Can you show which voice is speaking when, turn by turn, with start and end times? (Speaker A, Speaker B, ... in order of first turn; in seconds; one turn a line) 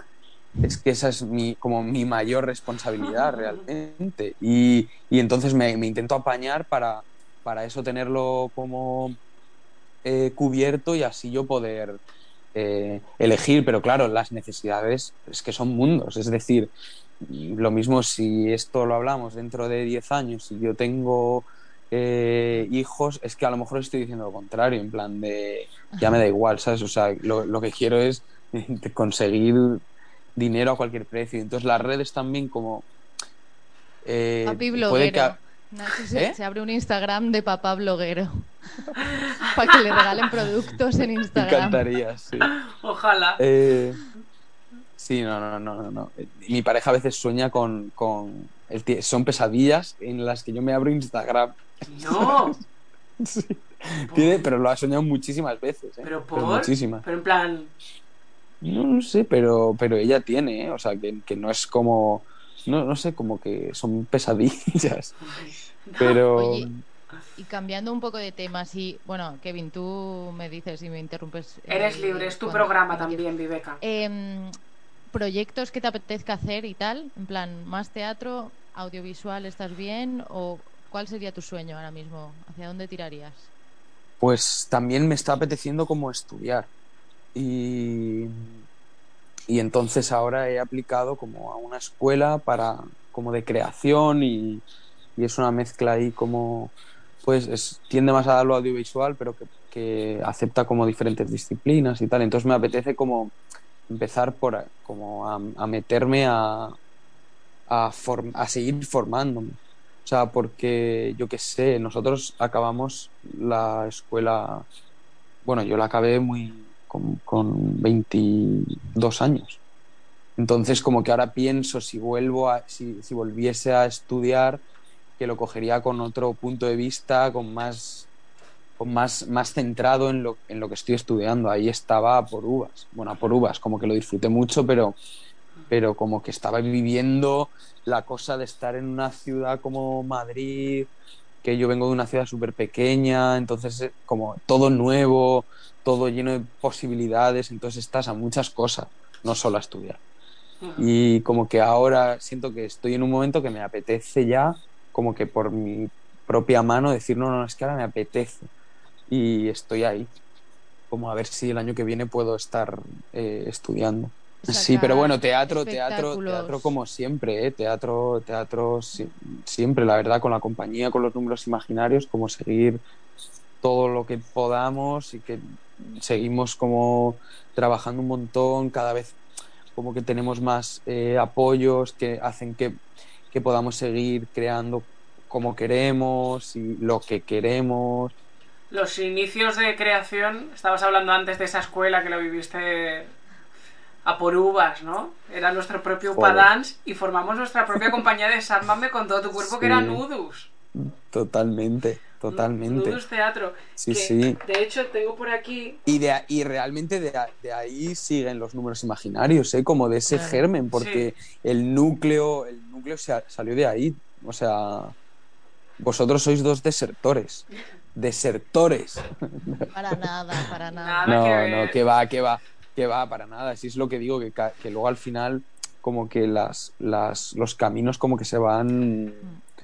Speaker A: 0.6-9.2
Speaker A: 10.0-12.0
Speaker A: 12.5-29.8
Speaker A: 30.4-32.9
Speaker A: 34.0-35.4
Speaker B: 34.5-38.5
Speaker A: 36.1-36.4
Speaker B: 39.5-41.8
Speaker A: 41.3-42.6
Speaker C: 42.4-43.4
Speaker A: 43.4-44.0
Speaker A: 45.0-52.6
Speaker C: 51.9-52.6
Speaker A: 53.2-57.0
Speaker C: 54.1-54.4
Speaker C: 56.0-57.7
Speaker A: 58.6-65.2
Speaker C: 65.2-66.2
Speaker A: 66.0-66.8
Speaker B: 66.3-66.7
Speaker B: 67.4-73.2
Speaker C: 71.7-73.8
Speaker B: 73.8-74.5
Speaker B: 75.1-83.5
Speaker A: 84.2-86.7
Speaker A: 87.3-88.5
Speaker A: 89.5-94.6
Speaker A: 95.2-103.3
Speaker A: 103.9-106.7
Speaker A: 107.7-114.7
Speaker A: 115.5-119.6
Speaker A: 120.4-124.6
Speaker A: 125.2-128.1
Speaker A: 128.8-135.0
Speaker A: 135.7-140.9
Speaker A: 141.4-150.0
Speaker C: 150.6-150.9
Speaker A: 150.8-158.5
Speaker A: 159.1-160.1
Speaker A: 160.9-172.8
Speaker B: 164.4-166.7
Speaker A: 173.6-179.2
Speaker A: 179.8-182.8
Speaker A: 183.3-188.1
Speaker C: 188.7-193.1
Speaker C: 194.1-200.5
Speaker A: 196.2-196.5
Speaker A: 199.4-200.0
Speaker A: 200.8-203.0
Speaker C: 202.3-205.8
Speaker A: 203.8-204.4
Speaker A: 205.9-214.9
Speaker B: 210.1-210.4
Speaker C: 210.7-211.1
Speaker A: 215.8-220.4
Speaker B: 219.7-221.2
Speaker C: 220.8-221.8
Speaker A: 221.1-229.3